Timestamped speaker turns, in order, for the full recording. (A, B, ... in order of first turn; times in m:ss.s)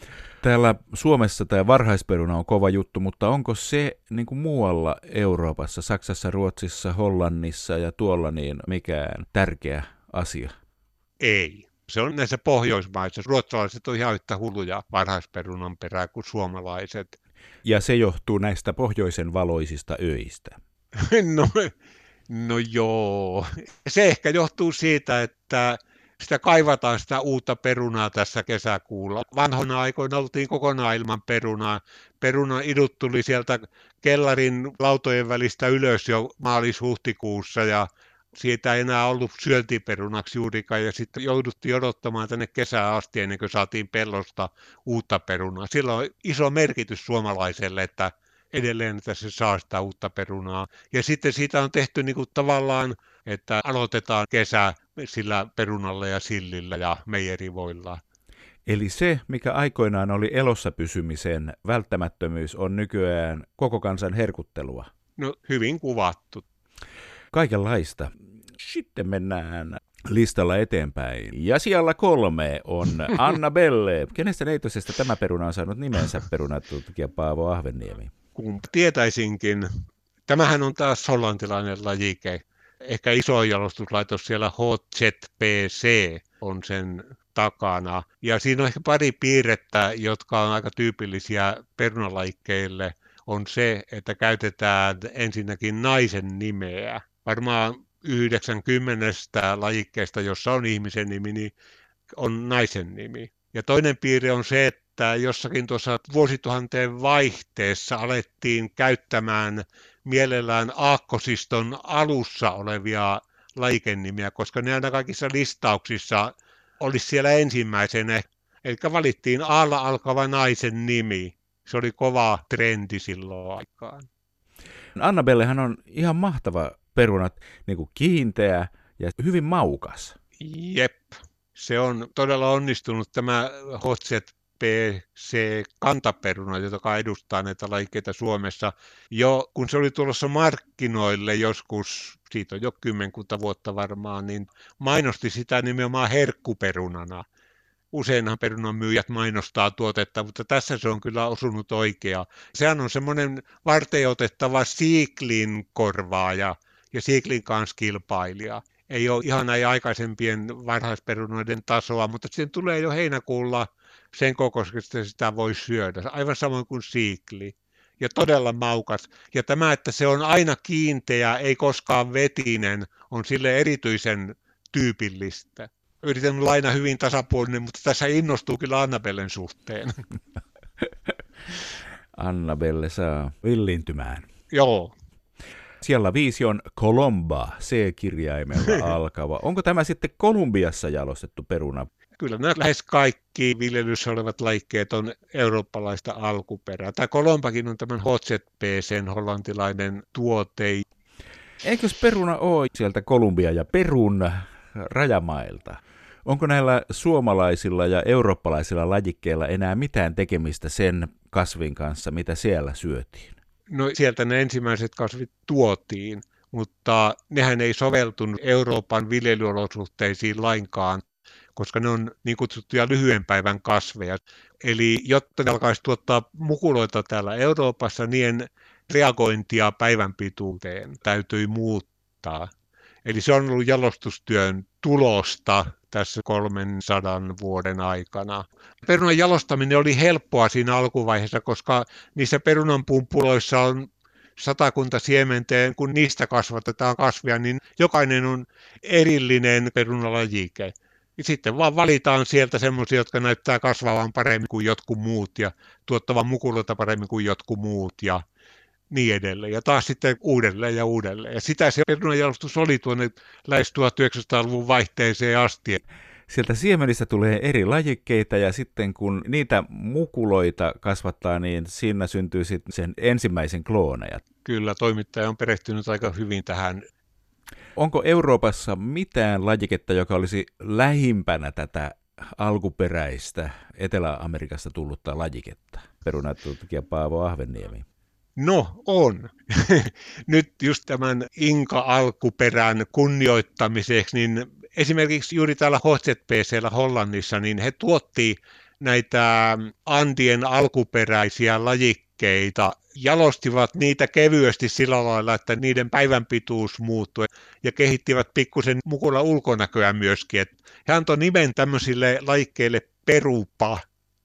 0:00.4-0:10.5 A
0:11.2-0:17.2 B
0:17.6-0:20.6 A
0:20.9-0:21.7 B
0:22.3-0:58.0 B
0:58.6-1:04.9 A
1:05.2-1:06.4 B
1:07.3-1:18.1 A
1:18.4-1:19.7 B
1:20.3-1:41.5 B
1:42.1-2:04.0 B
2:05.0-2:10.2 A
2:10.4-2:27.2 B
2:27.9-2:59.9 B
3:02.1-3:04.3 A
3:04.5-3:04.9 B
3:05.8-3:11.9 A
3:12.2-3:20.8 B
3:21.6-3:33.4 A
3:33.7-3:41.0 B
3:41.6-3:52.5 B
3:53.0-4:18.2 B
4:18.9-4:25.8 B
4:26.3-4:34.2 A
4:34.4-4:36.8 B
4:37.8-4:47.8 A
4:48.4-5:13.8 B